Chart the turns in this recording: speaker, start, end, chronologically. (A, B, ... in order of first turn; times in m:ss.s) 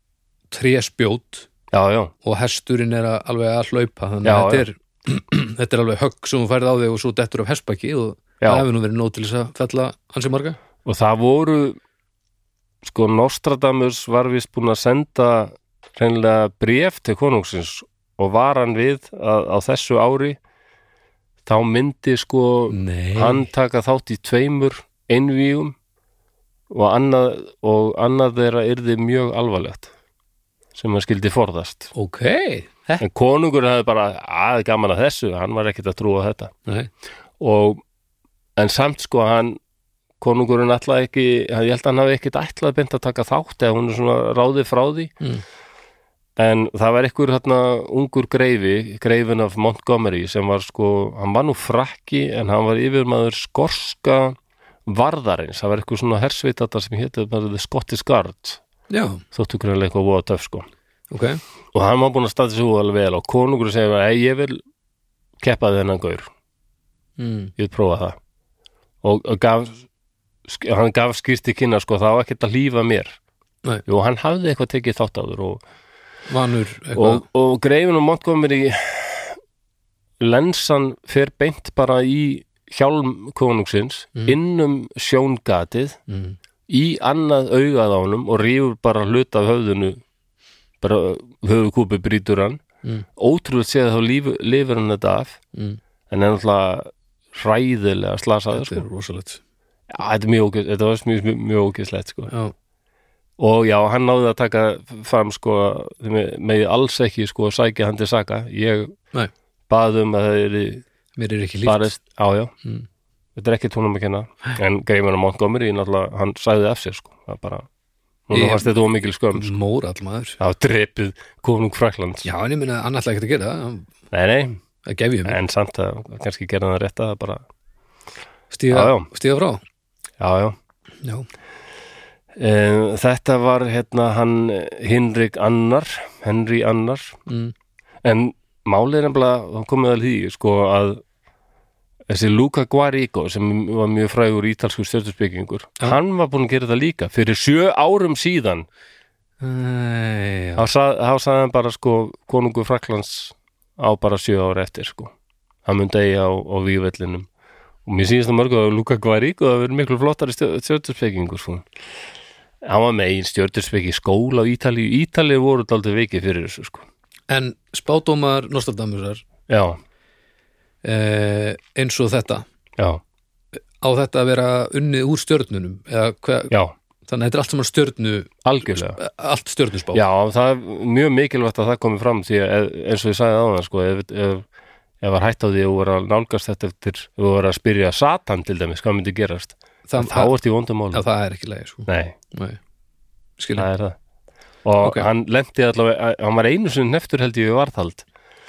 0:00.5-0:01.5 A
0:01.7-0:02.1 B
0:02.2-0:10.6 A
0:04.2-0:04.7 B
0:08.4-0:08.7 B
0:10.8-0:11.8 B
0:12.8-0:20.4 B
0:21.4-0:25.8 B
0:22.7-0:23.5 A
0:26.7-0:29.9 B
0:30.8-0:31.9 B
0:32.0-0:33.0 A
0:33.0-0:36.5 B
0:37.4-0:37.8 B
0:38.6-0:39.6 B
0:40.2-0:45.1 B
0:46.4-0:58.6 B
0:58.9-0:59.2 A
0:59.3-1:00.7 B
1:01.1-1:01.4 A
1:01.7-1:04.6 B
1:05.4-1:06.3 B
1:07.2-1:07.5 A
1:07.6-1:08.2 B
1:09.0-1:09.8 B
1:10.5-1:13.2 B
1:13.9-1:15.6 B
1:16.3-1:17.2 A
1:17.0-1:19.4 B
1:20.2-1:26.0 B
1:26.1-1:26.4 A
1:26.7-1:30.0 B
1:30.8-1:32.6 B
1:33.2-1:35.4 B
1:36.1-1:38.8 B
1:38.5-1:39.4 A
1:39.9-1:42.3 B
1:43.4-1:48.9 B
1:49.7-1:50.8 B
1:51.2-1:51.9 A
1:51.6-1:52.5 B
1:53.4-1:57.7 B
1:58.3-1:59.5 B
1:58.3-1:58.7 A
1:59.3-2:00.4 A
2:00.4-2:02.3 B
2:02.2-2:03.9 A
2:04.1-2:04.6 B
2:04.8-2:05.4 A
2:05.2-2:07.4 B
2:08.5-2:09.6 A
2:08.7-2:09.1 B
2:10.2-2:10.6 B
2:12.4-2:17.2 B
2:17.3-2:17.5 A
2:18.0-2:21.0 B
2:22.1-2:28.7 B
2:29.4-2:30.6 A
2:30.6-2:35.1 B
2:35.6-2:37.3 B
2:37.9-2:41.6 B
2:42.6-2:46.8 B
2:47.3-2:49.2 A
2:49.5-2:49.8 B
2:50.8-2:52.4 A
2:53.8-2:56.5 A
2:57.1-3:00.0 A
2:58.4-2:59.0 B
2:59.9-3:04.5 B
3:05.0-3:11.1 B
3:09.9-3:10.3 A
3:10.9-3:12.6 A
3:11.9-3:12.2 B
3:13.4-3:13.7 A
3:13.6-3:14.0 B
3:14.6-3:18.0 B
3:14.8-3:15.1 A